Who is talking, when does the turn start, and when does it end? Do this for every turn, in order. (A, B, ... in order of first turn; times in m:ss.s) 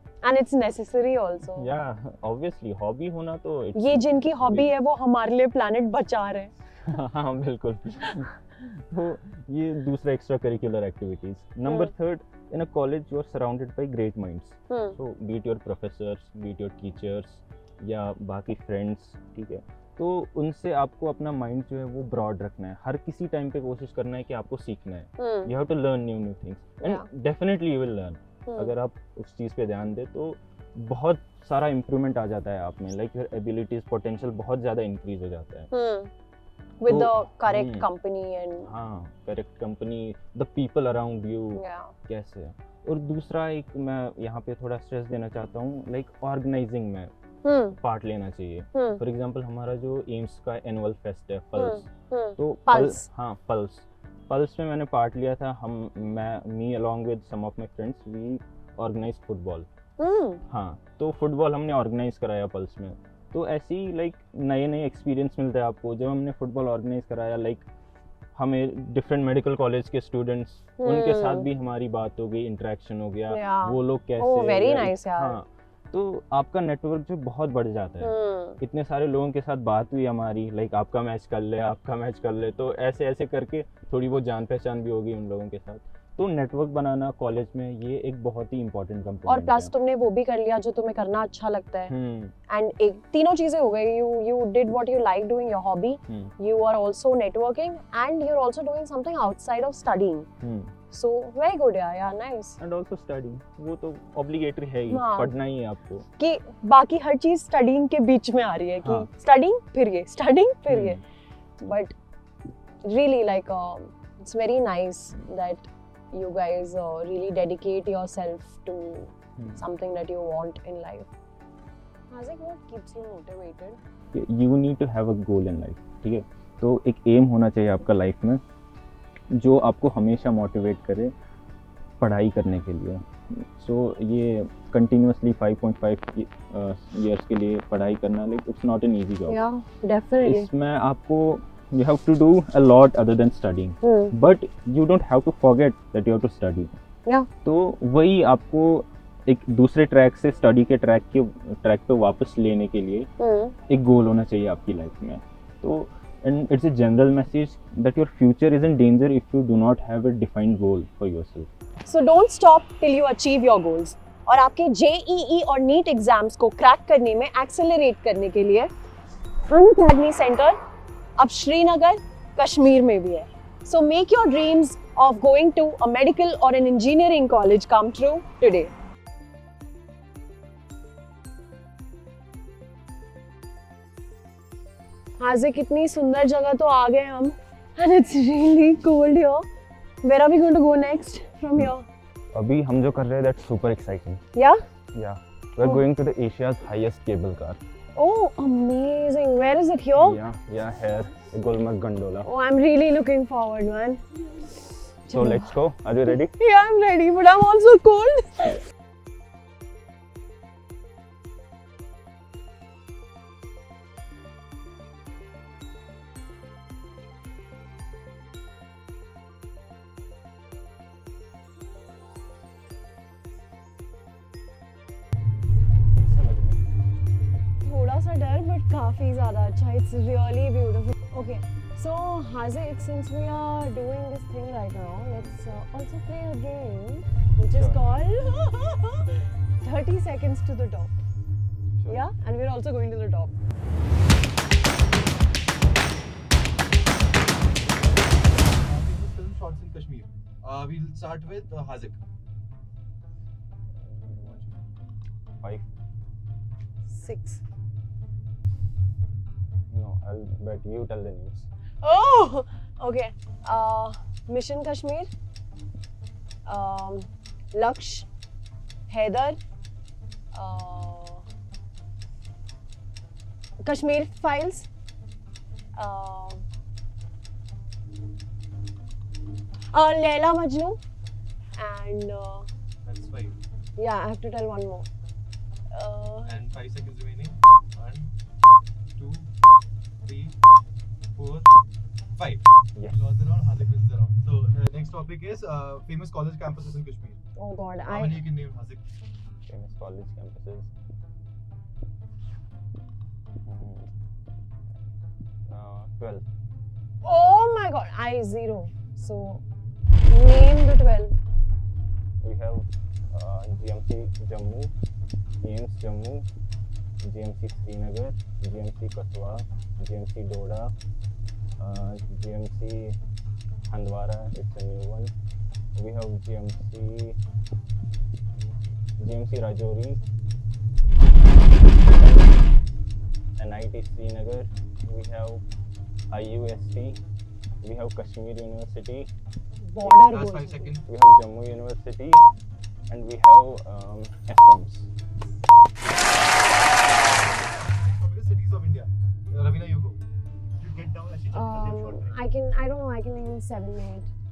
0:00.2-0:01.7 A
0:01.5-0:04.7 B
0:03.7-0:06.5 A
0:06.8-0:35.7 B
0:11.6-0:11.9 A
0:14.7-0:15.0 A
0:25.2-0:25.5 A
0:26.8-0:27.1 A
0:28.5-0:28.7 A
0:35.7-0:36.1 A
0:36.8-0:38.7 A
0:36.8-0:37.9 B
0:38.6-0:47.1 B
0:41.6-0:41.9 A
0:47.4-0:47.8 A
0:47.8-0:51.8 B
0:48.7-0:49.0 A
0:51.6-0:53.0 A
0:52.4-0:59.7 B
1:00.0-1:00.4 A
1:00.5-1:07.6 B
1:08.3-1:29.7 B
1:10.8-1:11.5 A
1:13.3-1:15.4 A
1:18.0-1:18.6 A
1:29.2-1:31.9 A
1:31.9-1:32.3 B
1:32.5-1:40.3 A
1:36.1-1:36.3 B
1:40.4-1:40.7 B
1:40.9-1:42.6 A
1:42.6-1:46.1 B
1:44.9-1:45.3 A
1:46.2-1:51.0 A
1:48.8-1:49.1 B
1:50.7-1:51.0 B
1:51.6-1:51.9 A
1:52.8-2:01.1 A
2:02.1-2:03.8 A
2:04.1-2:08.4 B
2:09.3-2:11.1 B
2:12.0-2:19.4 B
2:19.3-2:20.5 A
2:20.2-2:26.7 B
2:23.8-2:24.1 A
2:27.4-2:33.1 B
2:33.2-2:33.6 A
2:33.7-2:41.5 B
2:41.8-2:48.7 A
2:49.5-2:50.6 A
2:51.2-2:58.7 A
3:05.2-3:09.5 A
3:10.0-3:11.8 A
3:12.3-3:14.2 B
3:14.4-3:14.6 A
3:14.9-3:17.6 B
3:18.0-3:20.2 A
3:20.0-3:22.3 B
3:22.2-3:24.0 A
3:25.1-3:25.5 A
3:25.1-3:26.3 B
3:26.4-3:28.6 A
3:45.9-3:46.6 B
3:47.6-4:01.0 A
4:01.9-4:03.3 A
4:07.5-4:12.0 C
4:13.8-4:14.4 B
4:14.2-4:14.6 C
4:15.4-4:15.7 B
4:16.9-4:17.4 A
4:19.7-4:21.5 B
4:21.8-4:25.1 A
4:26.4-4:28.1 A
4:28.9-4:29.4 A
4:30.3-4:31.2 A
4:33.6-4:34.7 A
4:35.8-4:36.4 A
4:39.7-4:40.8 A
4:41.6-4:42.5 A
4:42.8-4:43.4 C
4:43.8-4:44.9 A
4:45.7-4:46.4 A
4:46.3-4:48.1 C
4:49.0-4:49.3 C
4:50.0-4:50.4 C
4:51.1-4:51.5 C
4:52.2-4:57.2 C
4:57.4-4:58.2 A
4:57.8-4:58.8 C
4:59.4-5:00.7 B
5:03.4-5:03.9 B
5:05.5-5:06.2 B
5:07.0-5:09.4 A
5:10.1-5:11.1 A
5:12.2-5:14.7 B
5:15.4-5:16.3 B
5:17.0-5:20.7 B
5:21.6-5:23.0 B
5:23.6-5:25.1 B
5:25.8-5:27.2 B
5:28.3-5:30.0 B
5:31.3-5:32.5 B
5:33.4-5:35.4 B
5:36.1-5:37.0 B
5:37.6-5:39.1 B
5:39.6-5:40.7 A
5:39.8-5:40.9 C
5:40.8-5:42.2 B
5:42.9-5:44.9 B
5:47.1-5:50.0 C
5:50.6-5:52.2 C
5:51.3-5:54.1 A